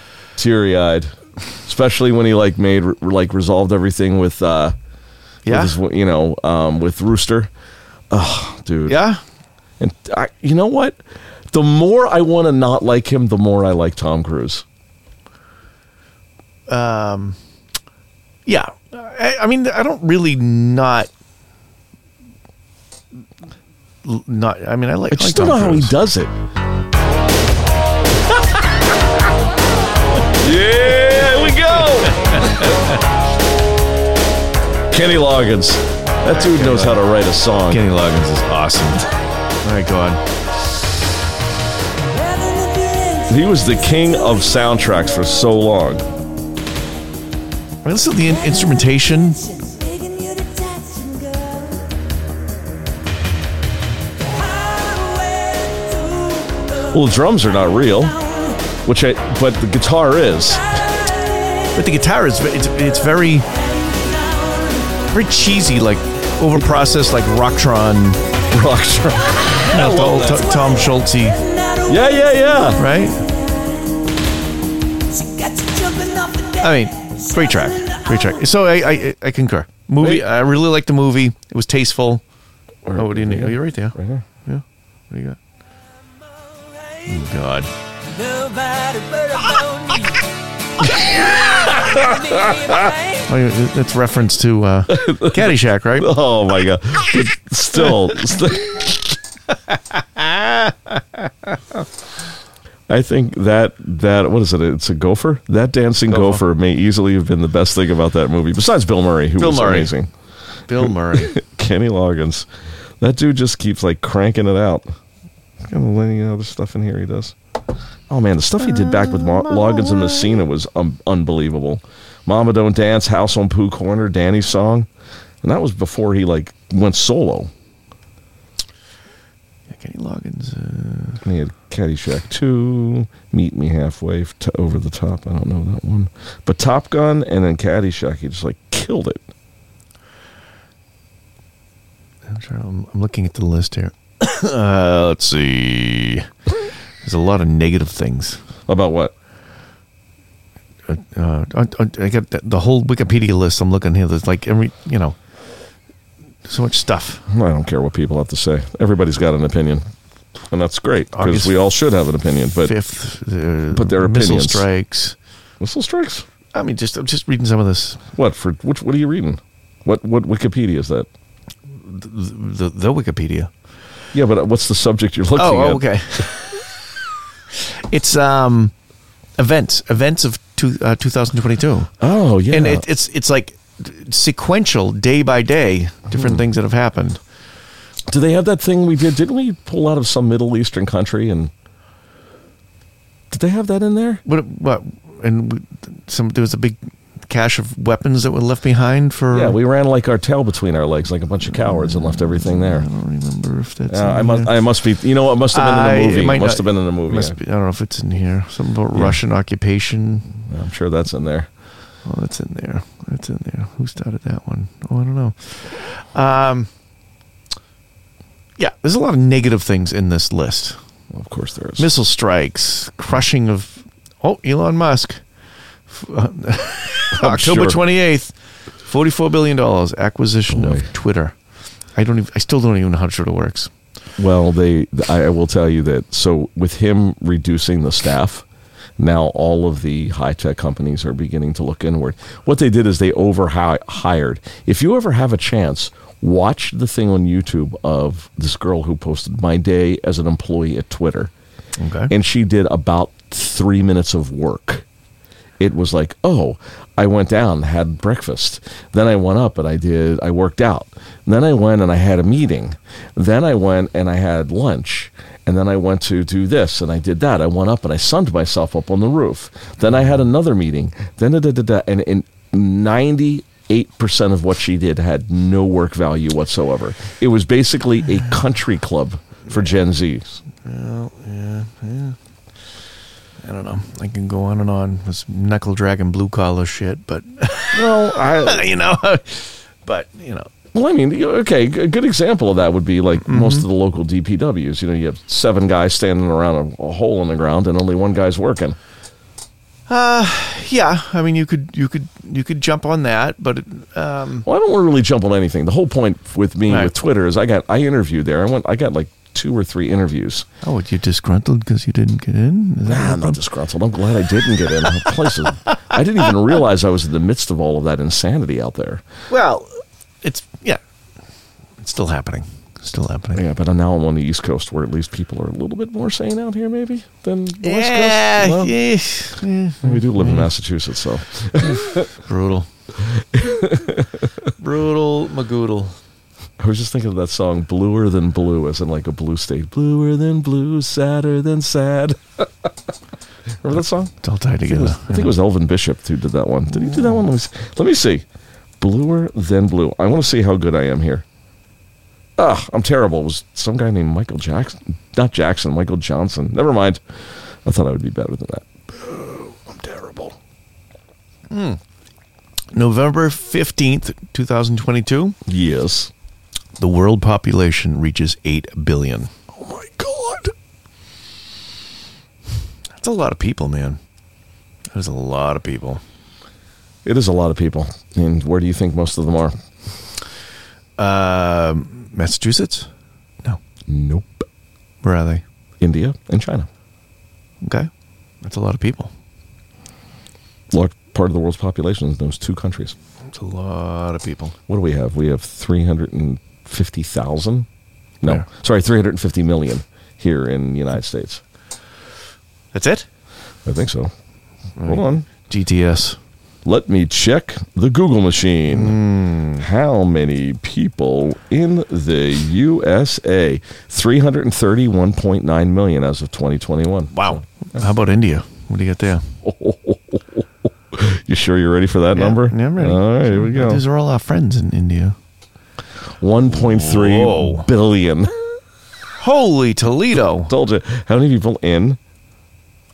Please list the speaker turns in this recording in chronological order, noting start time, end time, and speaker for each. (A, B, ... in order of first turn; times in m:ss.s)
0:00.4-0:01.1 A
0:01.6-0:04.8 A
0:05.4-0:05.7 B
0:05.4-0:07.5 A
0:08.1-0:09.0 A
0:08.9-0:09.2 B
0:09.8-0:14.6 A
0:16.7-0:17.4 B
0:18.4-0:21.1 B
0:24.0-0:26.0 B
0:25.1-0:26.3 A
0:30.4-0:32.7 A
0:32.0-0:33.0 B
0:34.9-0:37.8 A
0:36.3-0:37.0 B
0:37.7-0:39.0 B
0:39.6-0:40.2 B
0:43.3-0:46.0 A
0:47.8-0:49.6 B
0:56.9-0:58.2 A
0:58.8-1:00.6 A
1:01.7-1:03.4 B
1:05.1-1:08.2 B
1:08.5-1:10.6 A
1:09.7-1:11.4 B
1:11.8-1:12.8 A
1:12.8-1:13.2 B
1:16.6-1:22.2 B
1:20.0-1:20.2 A
1:22.8-1:24.2 A
1:22.9-1:25.4 B
1:27.1-1:27.7 B
1:28.2-1:30.0 C
1:30.8-1:32.9 A
1:32.4-1:32.9 C
1:33.3-1:36.1 B
1:34.9-1:39.2 A
1:39.7-1:41.3 B
1:42.9-1:50.1 A
1:46.1-1:46.4 B
1:49.4-1:49.9 B
1:50.7-1:51.4 B
1:50.8-1:52.5 A
1:53.0-1:54.9 A
1:55.6-1:57.3 A
1:58.1-2:04.9 A
1:58.6-2:00.4 B
2:05.4-2:07.5 A
2:09.7-2:11.2 B
2:11.2-2:19.2 A
2:22.2-2:26.3 B
2:27.0-2:28.4 B
2:28.7-2:29.1 A
2:30.9-2:35.2 B
2:36.4-2:37.2 B
2:37.3-2:39.8 A
2:40.5-2:42.8 A
2:41.1-2:41.6 B
2:42.6-2:45.2 B
2:43.7-2:44.7 A
2:45.6-2:46.2 A
2:46.5-2:48.0 B
2:48.1-2:51.1 A
2:51.7-2:53.5 B
2:54.1-2:56.2 A
2:55.4-2:56.6 B
2:57.6-2:58.7 B
2:59.4-3:01.9 B
3:02.0-3:02.8 A
3:02.5-3:07.2 B
3:06.1-3:06.4 A
3:08.1-3:11.5 A
3:13.3-3:14.2 A
3:14.2-3:19.6 B
3:19.3-3:22.8 A
3:21.6-3:24.5 B
3:23.9-3:27.4 A
3:25.5-3:30.3 B
3:30.5-3:31.5 A
3:32.0-3:36.7 B
3:38.6-3:40.8 B
3:41.1-3:41.9 A
3:41.8-3:45.2 B
3:45.9-3:48.3 B
3:47.1-3:47.8 A
3:48.8-3:51.4 B
3:50.5-3:50.9 A
3:52.0-3:53.7 B
3:54.2-3:58.4 A
3:59.0-4:11.3 A
4:11.8-4:12.1 B
4:12.1-4:14.8 A
4:15.6-4:40.4 A
4:40.6-4:42.2 B
4:43.4-4:50.5 B
4:47.7-4:48.7 A
4:50.7-4:58.8 A
4:53.2-4:53.7 B
4:59.9-5:04.4 B
5:04.4-5:10.5 A
5:10.6-5:13.4 B
5:12.8-5:19.0 A
5:19.3-5:20.8 B
5:21.8-5:23.4 B
5:23.3-5:28.8 A
5:27.6-5:30.5 B
5:29.8-5:32.1 A
5:32.2-5:32.7 B
5:33.0-5:34.3 A
5:34.6-5:36.0 B
5:36.6-5:42.7 A
5:43.6-5:48.2 A
5:44.2-5:45.3 B
5:48.8-5:51.2 A
5:52.4-5:57.0 A
5:57.6-6:00.4 A
6:01.5-6:01.8 B
6:02.7-6:05.4 B
6:05.4-6:06.1 A
6:06.8-6:09.3 B
6:09.5-6:10.5 A
6:13.0-6:14.0 B
6:14.9-6:16.0 B
6:17.0-6:19.6 A
6:21.0-6:22.9 B
6:23.9-6:24.5 A
6:25.0-6:25.4 B
6:25.8-6:26.7 A
6:27.6-6:27.9 B
6:28.4-6:29.1 B
6:30.7-6:33.0 A
6:33.3-6:34.6 B
6:34.7-6:37.7 A
6:38.2-6:41.4 A
6:42.7-6:43.1 B
6:43.6-6:44.1 A
6:44.8-6:46.2 B
6:44.8-6:45.2 A
6:46.6-6:49.0 A
6:48.7-6:49.6 B
6:49.6-6:57.4 A
6:57.1-6:59.3 B
6:59.4-7:03.8 A
7:02.1-7:05.2 B
7:06.2-7:08.3 A
7:06.5-7:07.7 B
7:09.2-7:10.5 B
7:10.1-7:12.0 A